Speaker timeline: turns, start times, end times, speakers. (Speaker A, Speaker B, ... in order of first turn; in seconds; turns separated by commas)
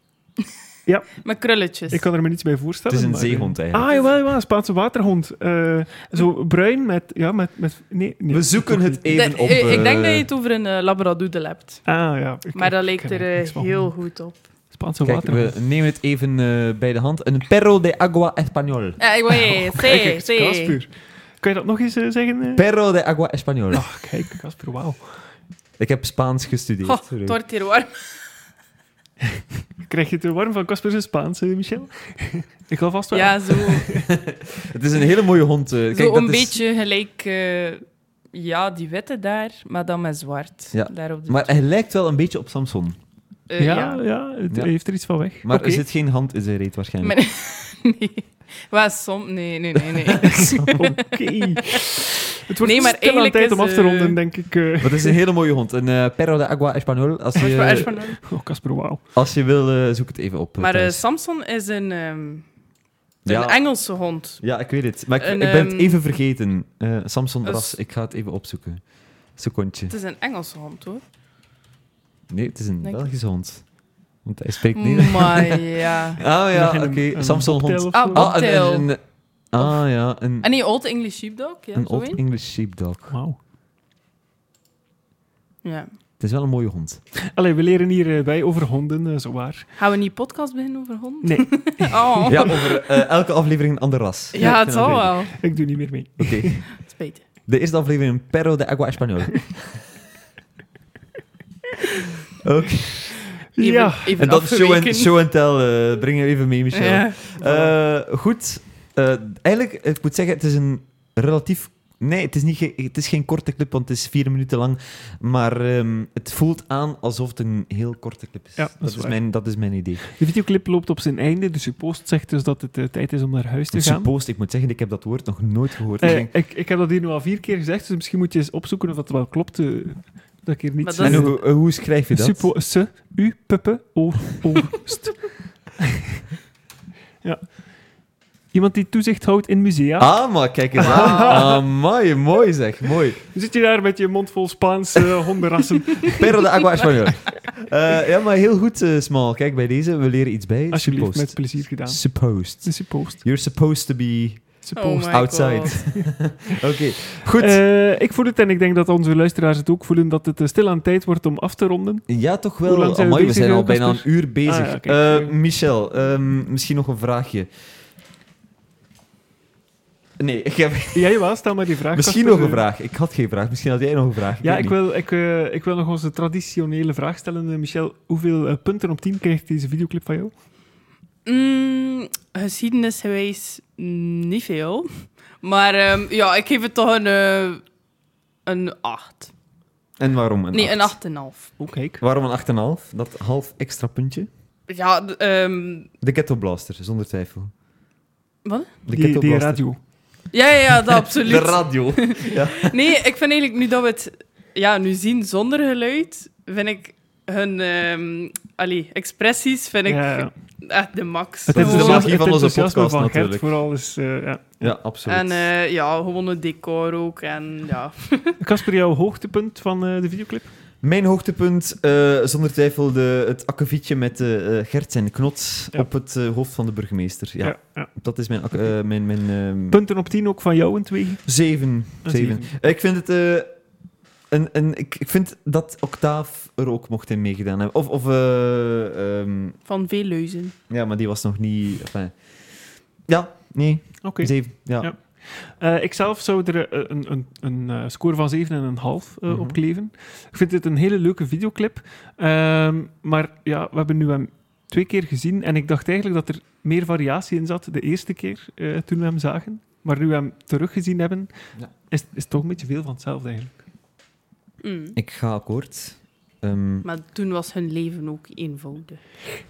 Speaker A: 0.9-9.8, Speaker B: 1.2-2.1, Speaker C: 2.9-4.0, Speaker C: 8.3-10.3, Speaker B: 9.2-11.9, Speaker A: 11.9-14.0, Speaker B: 12.5-14.5, Speaker A: 14.7-15.6, Speaker C: 15.0-19.0, Speaker B: 19.0-20.8, Speaker A: 19.3-22.6, Speaker C: 22.6-23.9, Speaker A: 23.7-25.3, Speaker C: 25.8-27.4, Speaker B: 26.8-28.3, Speaker A: 29.8-34.1, Speaker B: 33.1-33.9, Speaker C: 34.1-36.6, Speaker B: 35.9-41.5, Speaker C: 40.7-43.0, Speaker B: 43.5-44.0, Speaker A: 43.6-45.8, Speaker C: 45.4-47.2, Speaker B: 47.0-51.0, Speaker A: 50.6-55.2, Speaker B: 52.6-54.2, Speaker C: 54.8-58.2, Speaker B: 57.4-58.2, Speaker A: 57.6-59.0, Speaker C: 59.1-61.0, Speaker B: 60.6-62.5, Speaker B: 63.2-64.4, Speaker C: 63.2-69.9, Speaker B: 65.2-66.0, Speaker B: 67.4-67.8, Speaker B: 69.9-71.0, Speaker C: 72.3-80.5, Speaker B: 72.8-73.1, Speaker B: 74.8-76.2, Speaker A: 76.5-78.4, Speaker B: 77.9-79.0, Speaker B: 80.4-82.2, Speaker C: 81.8-83.2, Speaker A: 83.1-83.4, Speaker B: 85.6-85.9, Speaker C: 86.2-87.0, Speaker A: 87.3-89.7, Speaker B: 89.8-92.8, Speaker A: 91.2-92.5, Speaker C: 92.3-95.5, Speaker B: 94.3-95.3, Speaker A: 94.4-96.7, Speaker C: 96.2-96.9, Speaker B: 96.8-97.3, Speaker C: 97.5-99.8, Speaker C: 102.4-103.2, Speaker A: 103.5-104.2, Speaker B: 103.6-105.2, Speaker C: 104.2-120.1, Speaker B: 106.7-107.2, Speaker A: 107.4-107.7, Speaker A: 118.6-124.1, Speaker C: 123.7-126.3, Speaker A: 126.0-136.2, Speaker B: 130.8-131.3, Speaker C: 131.0-132.5, Speaker A: 137.2-137.8, Speaker A: 138.5-141.6, Speaker C: 140.0-143.2, Speaker B: 140.8-141.4, Speaker A: 143.3-146.3, Speaker C: 146.1-157.6, Speaker A: 150.7-153.2, Speaker A: 154.6-156.1, Speaker B: 154.8-156.0, Speaker A: 157.2-165.3, Speaker C: 162.1-167.5, Speaker C: 170.2-171.3, Speaker A: 170.9-172.6, Speaker C: 171.9-174.8, Speaker A: 174.4-180.3, Speaker B: 181.2-187.7, Speaker B: 188.4-189.3, Speaker C: 190.0-191.0, Speaker B: 190.5-191.5, Speaker A: 191.6-192.0, Speaker C: 192.0-194.3, Speaker B: 194.7-195.9, Speaker C: 196.0-197.5, Speaker B: 198.4-198.7, Speaker C: 198.9-199.7, Speaker A: 198.9-199.8, Speaker B: 200.3-212.2, Speaker C: 201.2-202.7, Speaker A: 209.9-210.3, Speaker A: 211.5-214.7, Speaker C: 211.6-213.5, Speaker C: 214.6-215.5, Speaker B: 215.1-218.4, Speaker A: 218.4-220.5, Speaker C: 220.8-229.8, Speaker A: 227.4-228.0, Speaker A: 229.7-231.4, Speaker C: 231.2-233.5, Speaker A: 232.0-232.7, Speaker C: 234.3-239.6, Speaker B: 239.7-240.6, Speaker C: 240.7-244.9, Speaker A: 244.0-263.6, Speaker C: 249.3-249.6, Speaker B: 264.6-265.0, Speaker C: 264.9-266.9, Speaker B: 266.8-269.0